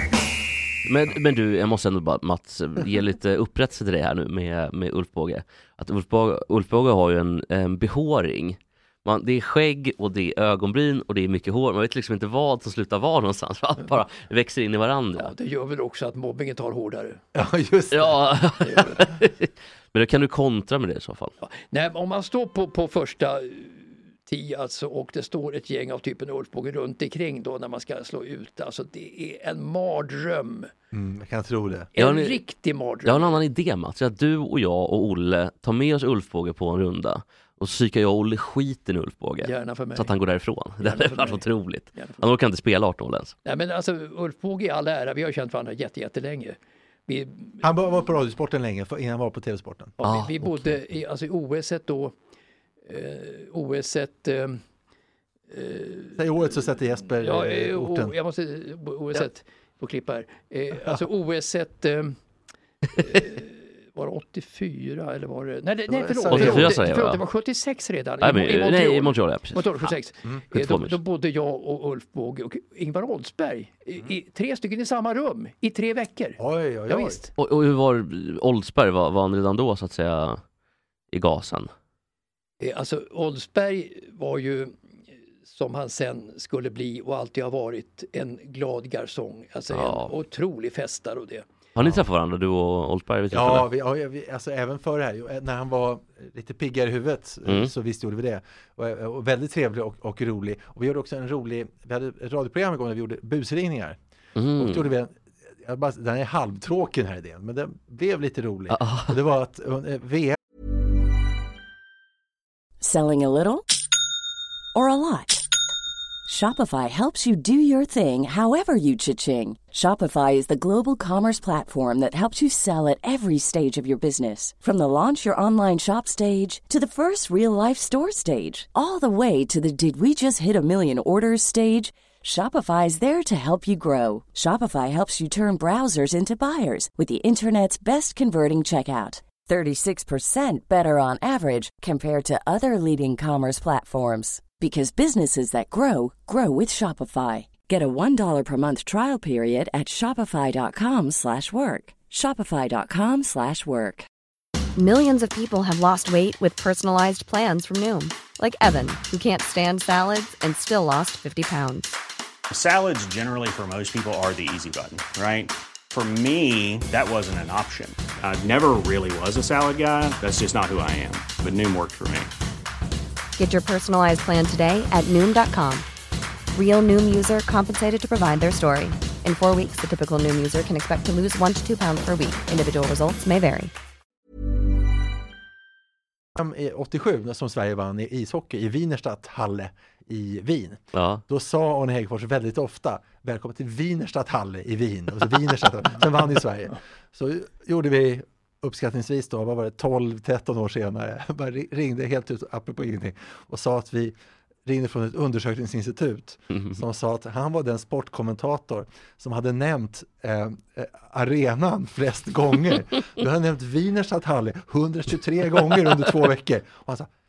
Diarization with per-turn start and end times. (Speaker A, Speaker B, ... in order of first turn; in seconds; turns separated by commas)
Speaker A: 0.8-15.3, Speaker B: 15.2-17.2, Speaker C: 17.3-18.2, Speaker A: 17.9-21.3, Speaker B: 18.6-19.1, Speaker B: 21.4-30.7, Speaker C: 30.9-31.9, Speaker B: 31.9-33.4, Speaker A: 32.0-32.4, Speaker A: 33.0-43.3, Speaker B: 39.4-40.1, Speaker B: 40.8-42.2, Speaker B: 43.4-47.6, Speaker C: 47.6-50.0, Speaker B: 50.0-52.1, Speaker A: 50.0-50.7, Speaker B: 52.9-54.6, Speaker B: 55.5-56.2, Speaker C: 56.1-58.1, Speaker B: 57.2-62.2, Speaker B: 62.9-77.3, Speaker C: 65.9-66.8, Speaker A: 66.3-67.2, Speaker A: 68.2-69.9, Speaker A: 70.5-71.0, Speaker C: 76.4-77.2, Speaker A: 77.4-80.4, Speaker A: 81.1-81.7, Speaker B: 82.6-84.7, Speaker B: 85.4-91.5, Speaker A: 89.7-90.1, Speaker A: 91.8-93.7, Speaker C: 93.3-104.0, Speaker A: 97.5-97.7, Speaker A: 104.3-104.8, Speaker C: 104.5-110.4, Speaker A: 108.7-109.1, Speaker D: 112.8-113.6, Speaker D: 114.7-115.5, Speaker D: 116.2-154.1, Speaker E: 154.8-161.9, Speaker F: 162.5-172.3, Speaker E: 173.4-175.8, Speaker E: 176.5-183.7, Speaker C: 186.3-217.1, Speaker A: 190.9-191.2